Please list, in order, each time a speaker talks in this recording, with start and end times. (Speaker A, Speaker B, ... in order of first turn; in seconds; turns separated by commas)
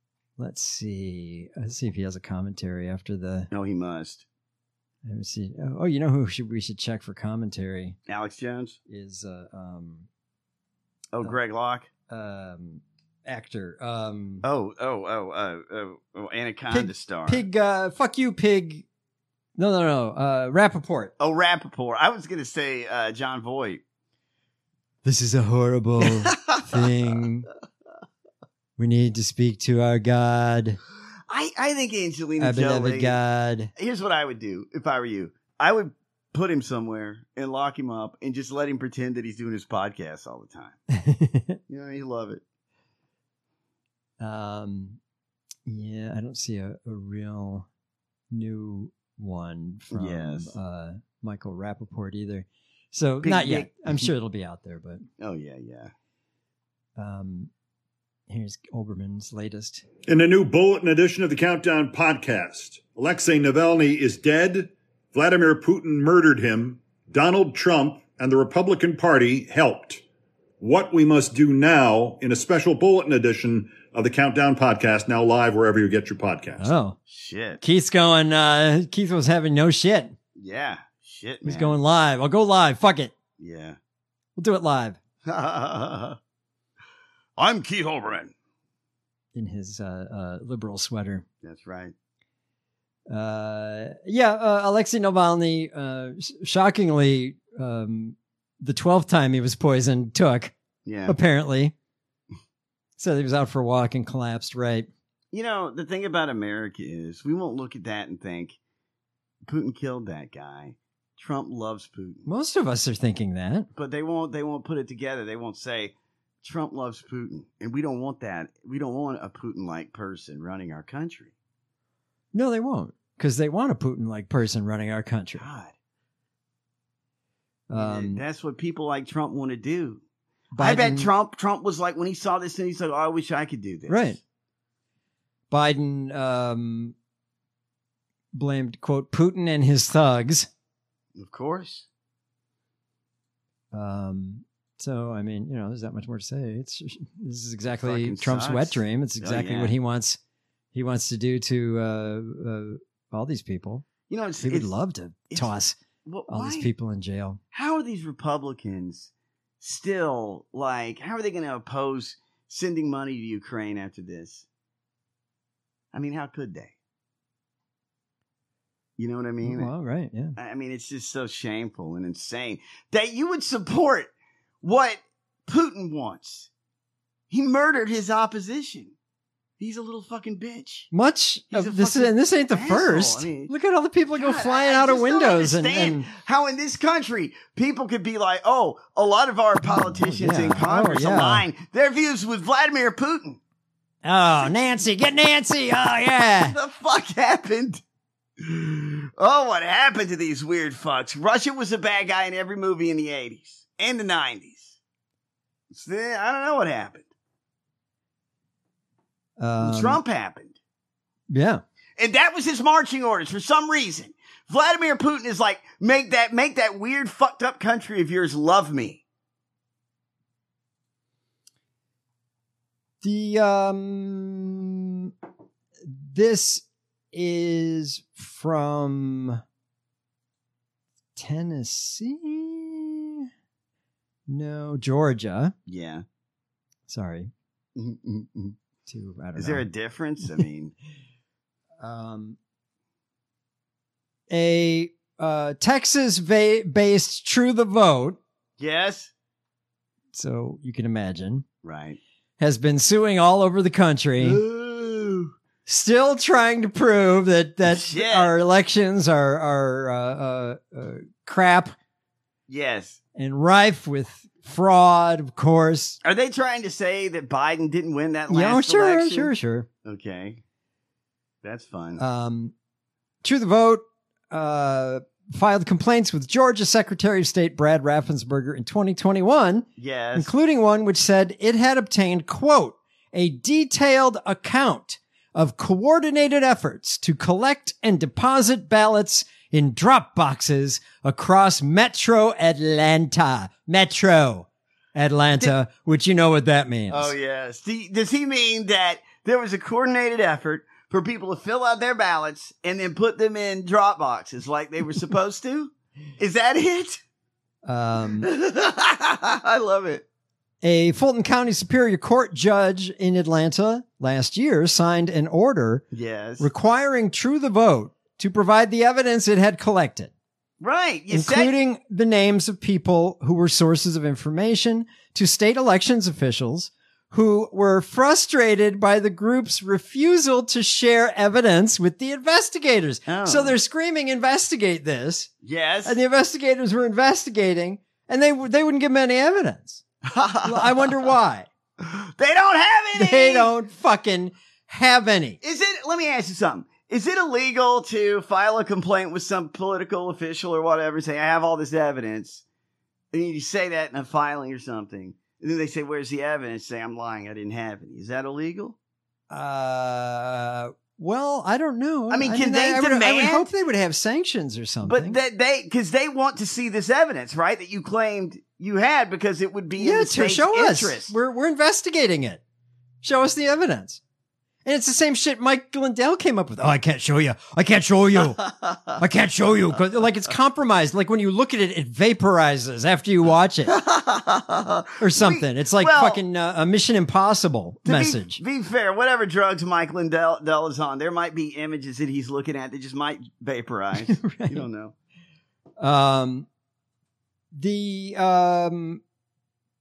Speaker A: 0.4-3.5, Speaker B: 3.5-4.2, Speaker A: 5.0-8.0, Speaker B: 8.1-8.8, Speaker A: 8.9-10.1, Speaker B: 11.1-11.9, Speaker A: 12.1-14.4, Speaker B: 14.4-17.5, Speaker A: 16.7-18.9, Speaker A: 19.6-21.1, Speaker B: 21.2-23.8, Speaker A: 25.0-27.5, Speaker B: 26.0-26.7, Speaker A: 28.8-30.8, Speaker B: 31.3-33.2, Speaker A: 32.4-33.7, Speaker B: 33.8-40.8, Speaker A: 40.9-41.6, Speaker B: 41.7-42.4, Speaker A: 44.2-45.0, Speaker A: 45.7-47.7, Speaker A: 48.3-55.0, Speaker B: 49.9-50.5, Speaker B: 53.2-54.1, Speaker B: 55.2-55.9, Speaker A: 57.0-57.5, Speaker A: 58.3-59.9, Speaker C: 60.1-70.0, Speaker C: 70.6-76.7, Speaker A: 76.6-77.0, Speaker B: 77.1-77.6, Speaker A: 77.6-80.2, Speaker B: 80.4-81.8, Speaker A: 81.5-83.1, Speaker B: 83.4-83.8, Speaker A: 84.4-85.0, Speaker B: 85.3-86.2, Speaker B: 87.4-88.3, Speaker A: 89.3-91.2, Speaker B: 91.4-91.9, Speaker A: 93.1-100.5, Speaker B: 100.9-101.2, Speaker A: 101.1-101.7, Speaker A: 103.0-104.9, Speaker B: 105.3-108.6, Speaker B: 109.5-112.3, Speaker A: 112.3-113.7, Speaker B: 113.8-121.3, Speaker A: 122.3-125.5, Speaker B: 125.4-125.7, Speaker A: 127.7-128.2, Speaker B: 127.8-130.0, Speaker A: 130.5-131.1, Speaker B: 130.6-134.2, Speaker A: 133.9-134.2, Speaker A: 135.5-136.9, Speaker A: 138.3-140.5, Speaker B: 141.2-141.9, Speaker A: 143.7-150.2, Speaker B: 147.8-149.7, Speaker A: 150.7-153.9, Speaker B: 154.1-154.7, Speaker A: 154.4-155.8, Speaker B: 156.1-156.7, Speaker A: 156.3-157.4, Speaker B: 157.5-164.5, Speaker B: 165.9-166.8, Speaker B: 169.0-169.7, Speaker A: 169.4-170.4, Speaker B: 170.4-176.5, Speaker B: 177.3-178.9, Speaker B: 179.6-180.9, Speaker A: 180.9-186.1, Speaker B: 181.5-183.5, Speaker B: 184.2-193.4, Speaker A: 190.0-191.5, Speaker A: 194.0-196.6, Speaker B: 196.4-197.8, Speaker B: 198.4-204.8, Speaker B: 205.7-207.1, Speaker A: 209.4-210.0, Speaker B: 209.6-210.6, Speaker A: 211.3-211.6, Speaker B: 212.0-219.0, Speaker A: 223.0-225.1, Speaker A: 225.8-229.4, Speaker A: 231.2-233.3, Speaker A: 234.3-235.5, Speaker B: 235.7-236.0, Speaker A: 236.9-237.3, Speaker B: 237.8-238.6, Speaker A: 238.9-239.7, Speaker B: 239.4-240.7, Speaker A: 241.8-242.4, Speaker A: 244.3-248.2, Speaker B: 248.6-249.1, Speaker A: 250.1-251.4, Speaker B: 251.6-252.0, Speaker A: 252.4-254.4, Speaker B: 254.2-255.3, Speaker A: 255.7-261.8, Speaker B: 257.7-258.3, Speaker B: 262.5-263.0, Speaker A: 263.1-266.0, Speaker B: 266.0-269.3, Speaker A: 268.3-269.7, Speaker B: 269.9-270.4, Speaker B: 271.4-272.0, Speaker A: 272.0-272.5, Speaker A: 273.2-297.1, Speaker B: 279.8-280.3, Speaker B: 296.9-307.0, Speaker A: 307.6-308.3, Speaker B: 308.2-310.1, Speaker A: 310.6-315.9, Speaker B: 315.9-316.5, Speaker A: 316.4-320.1, Speaker B: 320.6-321.5, Speaker A: 321.1-335.3, Speaker B: 333.1-333.6, Speaker B: 335.4-336.0, Speaker A: 335.9-339.8, Speaker B: 340.1-341.1, Speaker A: 340.4-341.5, Speaker B: 341.8-343.5, Speaker A: 343.0-345.4, Speaker B: 345.4-352.4, Speaker B: 353.1-358.8, Speaker A: 359.3-365.2, Speaker B: 362.1-363.5, Speaker B: 364.8-371.1, Speaker A: 369.8-372.4, Speaker A: 373.0-374.0, Speaker A: 374.6-378.4, Speaker B: 378.4-379.0, Speaker A: 379.0-383.7, Speaker B: 383.7-386.2, Speaker A: 385.0-388.4, Speaker B: 387.9-394.9, Speaker A: 394.0-394.7, Speaker A: 395.8-396.5, Speaker A: 397.5-399.0